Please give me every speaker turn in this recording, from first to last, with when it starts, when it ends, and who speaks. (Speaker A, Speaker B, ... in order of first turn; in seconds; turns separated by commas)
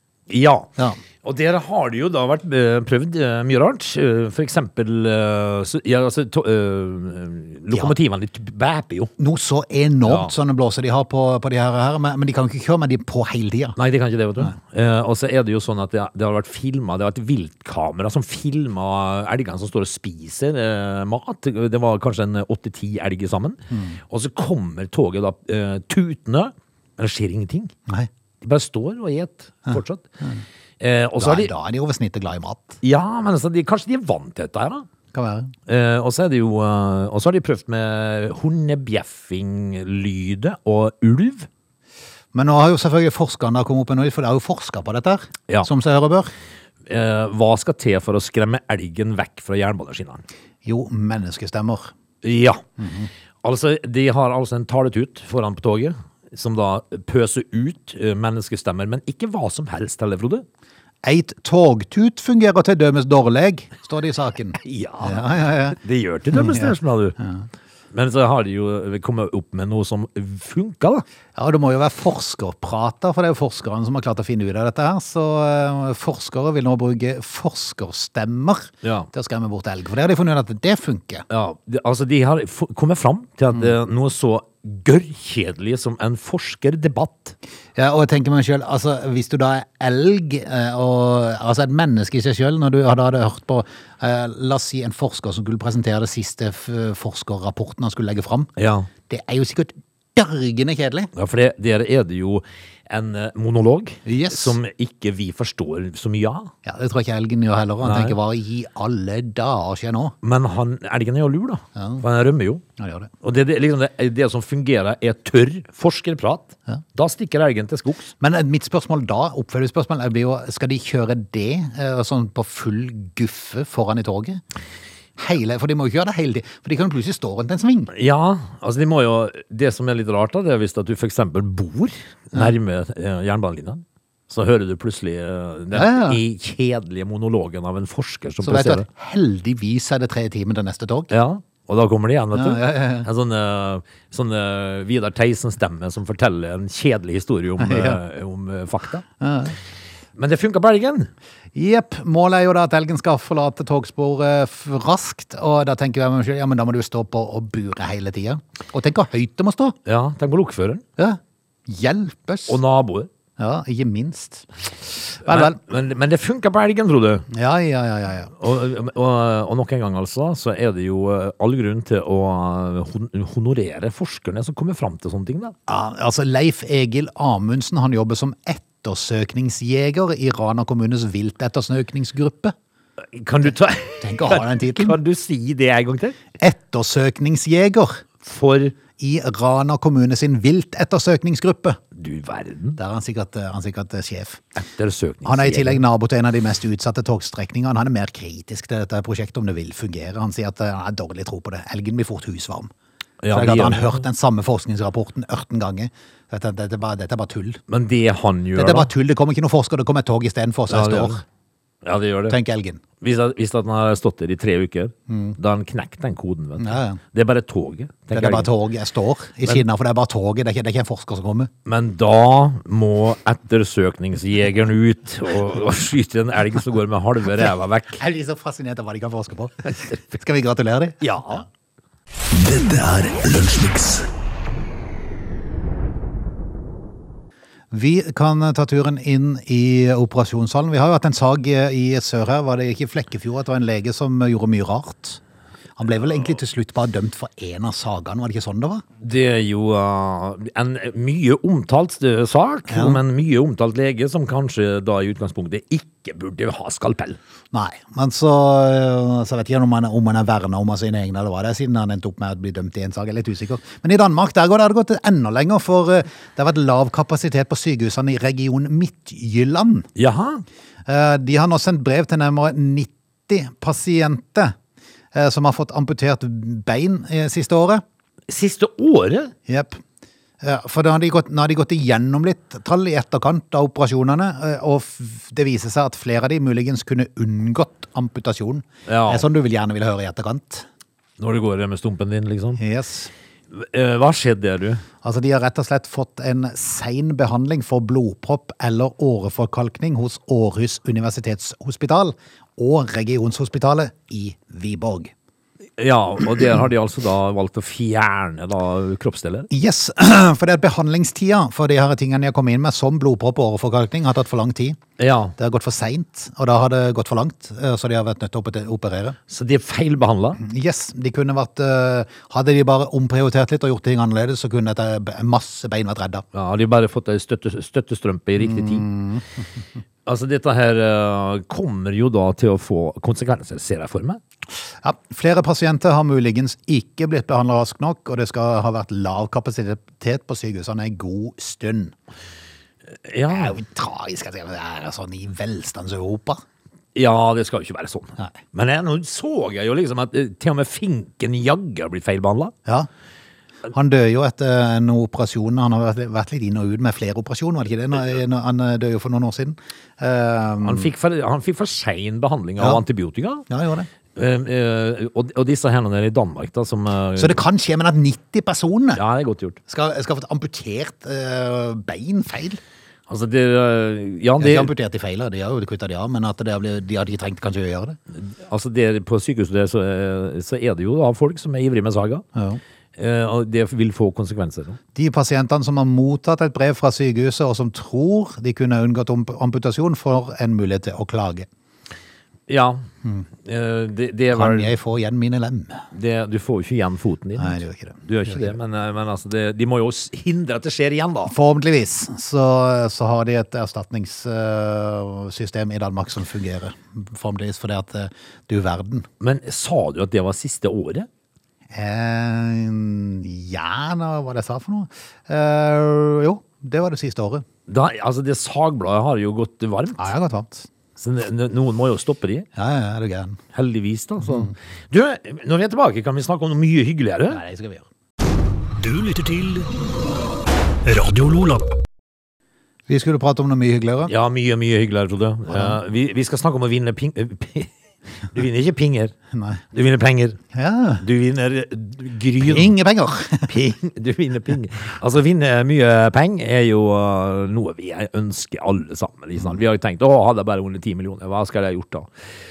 Speaker A: 0.3-0.7, Speaker A: 1.2-9.1, Speaker B: 7.7-8.0, Speaker B: 9.2-13.8, Speaker A: 10.0-10.3, Speaker A: 13.8-27.7, Speaker B: 23.7-24.0, Speaker A: 28.4-30.1, Speaker B: 29.7-30.4, Speaker A: 30.8-31.5, Speaker B: 31.2-32.8, Speaker A: 32.8-34.9, Speaker B: 35.1-35.5, Speaker A: 35.7-41.5, Speaker B: 42.3-46.3, Speaker A: 46.9-50.2, Speaker B: 50.6-51.9, Speaker A: 52.2-52.6, Speaker B: 52.8-53.1, Speaker A: 53.4-60.4, Speaker B: 61.0-65.8, Speaker A: 64.6-67.2, Speaker B: 66.3-67.5, Speaker A: 67.9-71.0, Speaker B: 71.3-81.2, Speaker A: 78.8-79.1, Speaker A: 81.3-87.3, Speaker B: 87.8-98.5, Speaker A: 98.6-98.9, Speaker B: 99.1-101.1, Speaker A: 101.1-106.5, Speaker B: 104.0-104.6, Speaker B: 106.6-110.1, Speaker A: 107.8-108.2, Speaker A: 110.2-112.6, Speaker B: 111.8-112.0, Speaker B: 112.8-113.1, Speaker A: 113.2-118.1, Speaker B: 118.2-124.4, Speaker B: 125.2-127.9, Speaker A: 127.9-138.8, Speaker B: 135.7-136.2, Speaker B: 138.4-141.1, Speaker A: 141.1-149.0, Speaker B: 142.3-143.1, Speaker B: 147.6-148.0, Speaker B: 149.2-149.6, Speaker A: 150.2-151.1, Speaker B: 151.5-159.8, Speaker A: 159.8-160.8, Speaker B: 161.0-162.6, Speaker A: 162.5-163.1, Speaker B: 163.4-164.4, Speaker B: 165.0-165.6, Speaker A: 165.2-167.3, Speaker B: 167.3-168.3, Speaker A: 168.4-175.5, Speaker B: 175.7-182.5, Speaker A: 183.0-186.2, Speaker B: 184.0-185.0, Speaker B: 186.4-188.0, Speaker A: 188.2-188.8, Speaker B: 189.0-191.8, Speaker A: 191.9-192.8, Speaker B: 192.8-194.4, Speaker A: 194.6-195.8, Speaker B: 195.2-202.7, Speaker A: 203.2-204.0, Speaker B: 203.3-207.6, Speaker A: 207.7-208.9, Speaker B: 208.5-211.2, Speaker A: 210.7-211.2, Speaker A: 211.8-212.4, Speaker B: 212.3-212.8, Speaker A: 213.0-218.5, Speaker B: 215.1-215.4, Speaker B: 216.6-217.0, Speaker B: 218.1-221.5, Speaker A: 221.6-228.0, Speaker B: 228.0-231.4, Speaker A: 231.0-231.4, Speaker C: 232.3-234.1, Speaker B: 237.7-245.2, Speaker B: 245.8-248.8, Speaker A: 249.0-257.2, Speaker B: 252.7-253.0, Speaker B: 257.5-269.9, Speaker A: 269.9-270.4, Speaker B: 270.9-274.5, Speaker B: 275.1-277.8, Speaker A: 278.3-279.3, Speaker B: 279.5-279.8, Speaker B: 280.4-290.7, Speaker A: 288.9-289.3, Speaker A: 291.2-292.6, Speaker B: 292.6-293.1, Speaker A: 293.5-294.8, Speaker B: 295.0-305.1, Speaker A: 305.8-309.5, Speaker B: 309.5-314.8, Speaker A: 315.0-315.3, Speaker B: 315.4-319.2, Speaker A: 319.3-320.4, Speaker B: 320.4-326.2, Speaker A: 326.3-328.9, Speaker B: 328.4-329.4, Speaker A: 330.1-334.2, Speaker B: 334.8-341.9, Speaker A: 343.0-343.6, Speaker B: 343.3-346.4, Speaker A: 346.9-352.5, Speaker B: 353.7-360.9, Speaker A: 360.6-363.4, Speaker B: 363.5-363.9, Speaker A: 364.1-367.4, Speaker B: 367.1-369.0, Speaker A: 368.9-369.6, Speaker B: 369.7-372.6, Speaker A: 373.1-374.7, Speaker B: 374.4-378.0, Speaker A: 378.1-382.2, Speaker B: 382.4-382.6, Speaker A: 382.9-384.8, Speaker B: 384.9-391.5, Speaker A: 392.5-392.8, Speaker A: 393.4-394.7, Speaker B: 394.3-395.9, Speaker A: 395.9-401.3, Speaker B: 397.4-398.5, Speaker B: 401.2-409.1, Speaker A: 409.2-411.1, Speaker B: 411.7-417.4, Speaker A: 417.7-420.1, Speaker B: 420.0-420.7, Speaker A: 420.9-422.5, Speaker B: 422.6-423.4, Speaker A: 423.5-427.4, Speaker B: 424.2-424.5, Speaker B: 427.3-427.9, Speaker C: 428.8-429.7, Speaker C: 430.8-431.7, Speaker B: 432.9-434.1, Speaker A: 434.1-437.7, Speaker B: 435.5-435.8, Speaker A: 438.3-439.1, Speaker B: 439.3-439.6, Speaker A: 439.7-440.4, Speaker B: 440.5-441.0, Speaker A: 441.0-442.7, Speaker B: 442.4-443.5, Speaker A: 443.5-452.1